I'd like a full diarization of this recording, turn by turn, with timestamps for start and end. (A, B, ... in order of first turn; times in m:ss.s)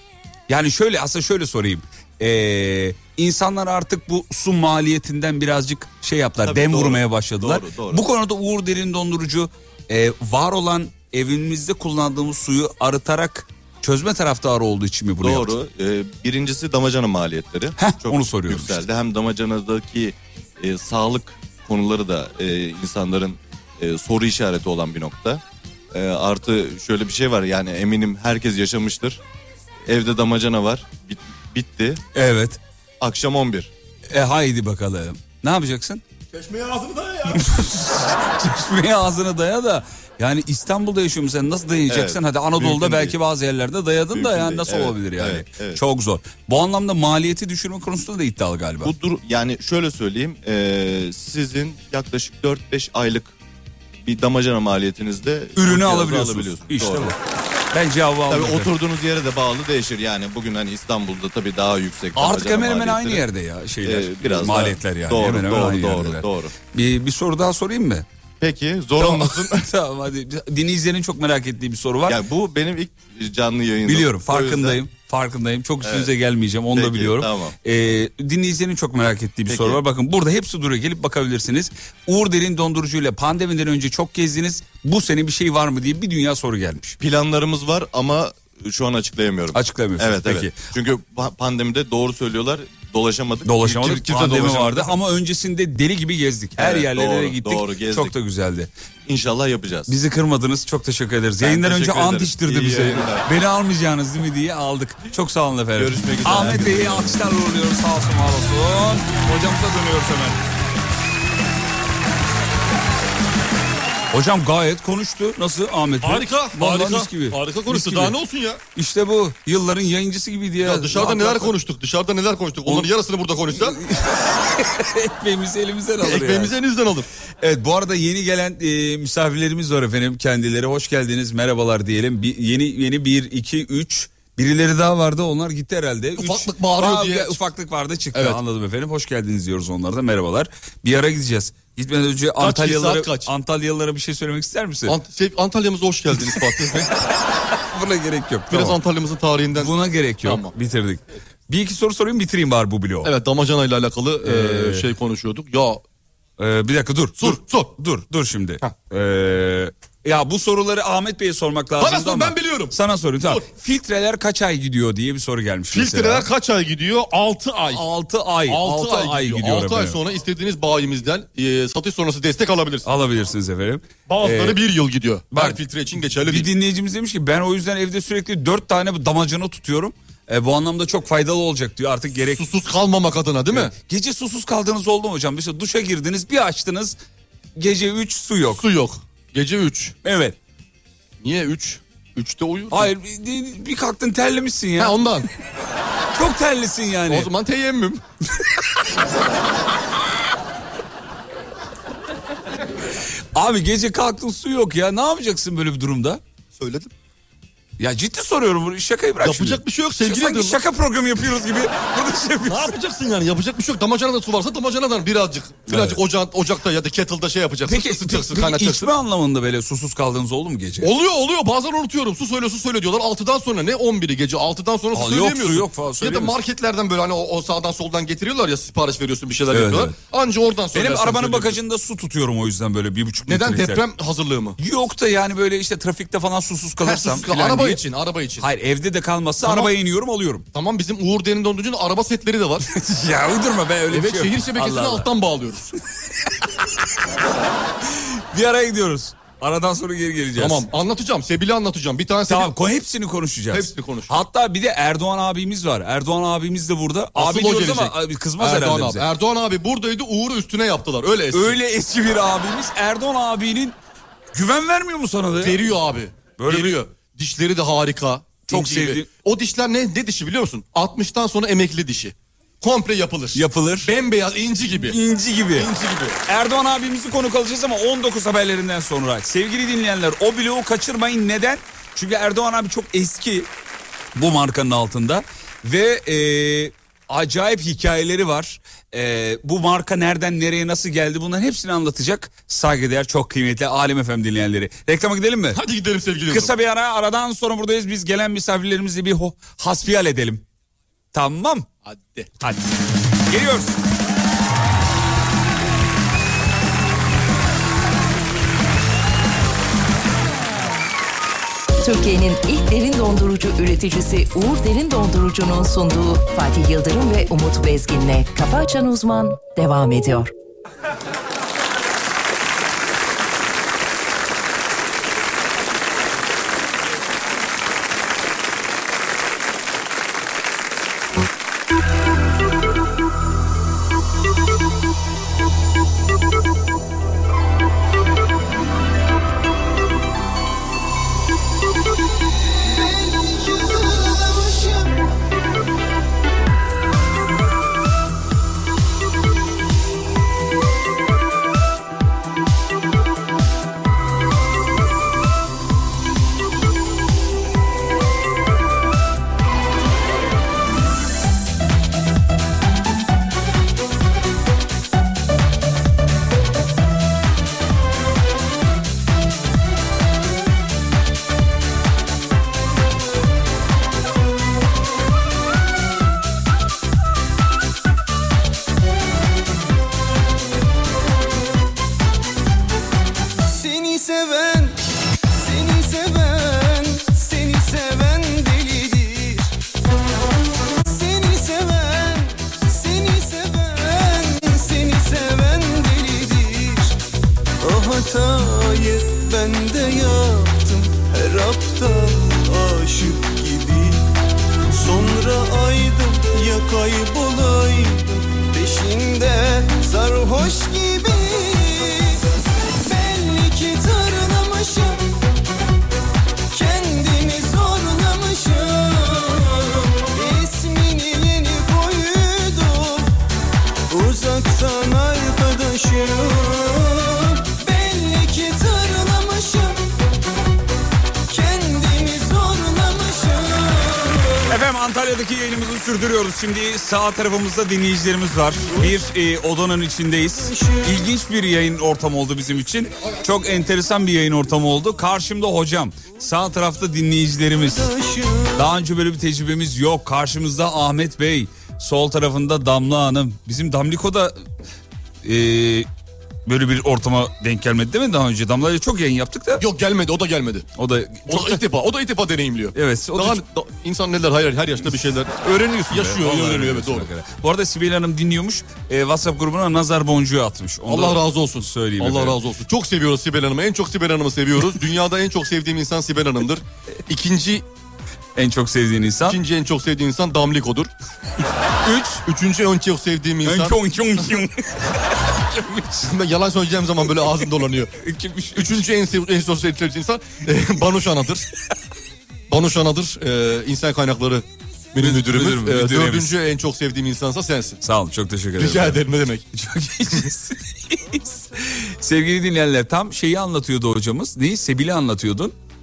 0:00.5-0:15.6 A
0:06.4-0:08.0 B
0:15.2-0:29.2 B
0:17.8-0:18.8 A
0:29.8-0:32.0 B
0:32.1-0:32.6 A
0:33.0-0:33.7 B
0:34.1-0:36.0 A
0:36.3-0:37.4 C
0:37.3-0:48.9 A
0:41.9-0:43.2 B
0:44.1-0:45.8 B
0:48.8-0:53.3 B
0:54.0-0:57.2 B
0:55.6-0:57.2 A
0:57.7-0:58.7 A
0:58.3-1:03.2 B
1:02.2-1:08.0 A
1:03.8-1:06.5 B
1:08.4-1:09.7 B
1:09.0-1:12.2 A
1:12.0-1:14.8 B
1:13.8-1:27.0 A
1:15.8-1:16.1 B
1:16.7-1:17.6 B
1:19.5-1:19.8 B
1:27.0-1:34.9 B
1:29.5-1:30.6 A
1:33.4-1:38.7 A
1:36.6-1:38.1 B
1:39.0-1:39.9 B
1:39.9-1:50.4 A
1:41.4-1:43.3 B
1:45.8-1:47.2 B
1:54.1-1:58.2 A
1:56.0-1:58.6 C
1:58.7-2:01.5 A
2:00.6-2:03.8 C
2:02.7-2:02.9 A
2:03.5-2:06.6 A
2:06.0-2:07.1 C
2:07.4-2:25.0 A
2:16.2-2:17.4 C
2:18.1-2:18.4 C
2:22.4-2:23.3 C
2:24.8-2:26.9 C
2:26.2-2:28.8 A
2:28.5-2:30.5 C
2:29.6-2:33.1 A
2:33.0-2:35.8 C
2:34.2-2:34.9 A
2:36.4-2:46.3 A
2:37.2-2:37.7 C
2:41.8-2:43.4 C
2:45.7-2:47.9 C
2:47.7-2:50.0 A
2:48.4-2:52.8 C
2:52.8-2:54.6 A
2:54.1-2:56.5 C
2:55.3-2:55.6 A
2:56.2-3:02.4 A
3:02.3-3:03.7 C
3:03.5-3:07.0 A
3:07.6-3:08.6 A
3:08.5-3:10.0 C
3:10.0-3:10.4 A
3:11.2-3:12.9 C
3:12.7-3:15.0 A
3:14.8-3:15.3 C
3:16.1-3:17.3 A
3:17.1-3:18.0 C
3:23.3-3:26.2 A
3:26.5-3:26.9 C
3:27.8-3:32.8 A
3:29.2-3:30.6 C
3:32.4-3:38.9 C
3:35.7-3:36.0 A
3:37.7-3:40.9 A
3:40.8-3:51.6 C
3:44.9-3:46.4 A
3:49.5-3:50.0 A
3:50.7-3:53.8 A
3:53.3-3:54.6 C
3:54.6-3:57.8 A
3:56.8-3:58.5 C
3:58.4-4:00.4 A
3:59.4-3:59.7 C
4:00.5-4:02.7 C
4:02.7-4:05.1 A
4:03.9-4:05.7 C
4:07.9-4:10.6 A
4:10.4-4:12.5 C
4:12.3-4:19.1 A
4:13.5-4:14.2 C
4:17.1-4:21.6 C
4:21.3-4:23.8 A
4:24.3-4:25.7 A
4:25.4-4:35.0 C
4:26.4-4:26.8 A
4:28.5-4:29.1 A
4:33.3-4:33.9 A
4:34.9-4:35.7 A
4:35.5-4:36.2 C
4:36.2-4:43.5 A
4:44.1-4:55.6 A
4:55.5-4:56.5 C
4:56.3-5:00.4 A
5:01.1-5:01.7 A
5:01.8-5:02.3 C
5:02.4-5:02.7 A
5:03.2-5:03.8 A
5:11.8-5:20.3 D
5:42.8-5:44.9 E
6:23.5-6:24.8 E
6:25.4-6:29.5 E
6:30.9-6:37.0 E
6:37.6-6:44.0 E
6:44.8-6:52.2 E
6:52.9-6:55.1 E
6:56.5-7:03.1 E
7:03.9-7:09.8 E
7:11.3-7:14.4 E
7:14.5-7:28.0 A
7:28.5-7:34.4 A
7:35.2-7:35.9 A
7:36.4-7:39.6 A
7:39.6-7:40.7 C
7:40.8-7:41.6 A
7:41.3-7:47.1 C
7:42.7-7:43.4 A
7:45.4-7:52.4 A
7:50.9-7:57.6 C
7:58.4-7:59.4 A
7:59.2-8:00.9 C
8:01.8-8:02.2 A
8:02.2-8:03.8 C
8:03.4-8:06.1 A
8:06.0-8:07.9 C
8:08.0-8:08.8 A
8:08.5-8:11.5 C
8:12.5-8:17.8 C
8:15.0-8:16.3 A
8:17.8-8:25.5 A
8:18.6-8:19.4 C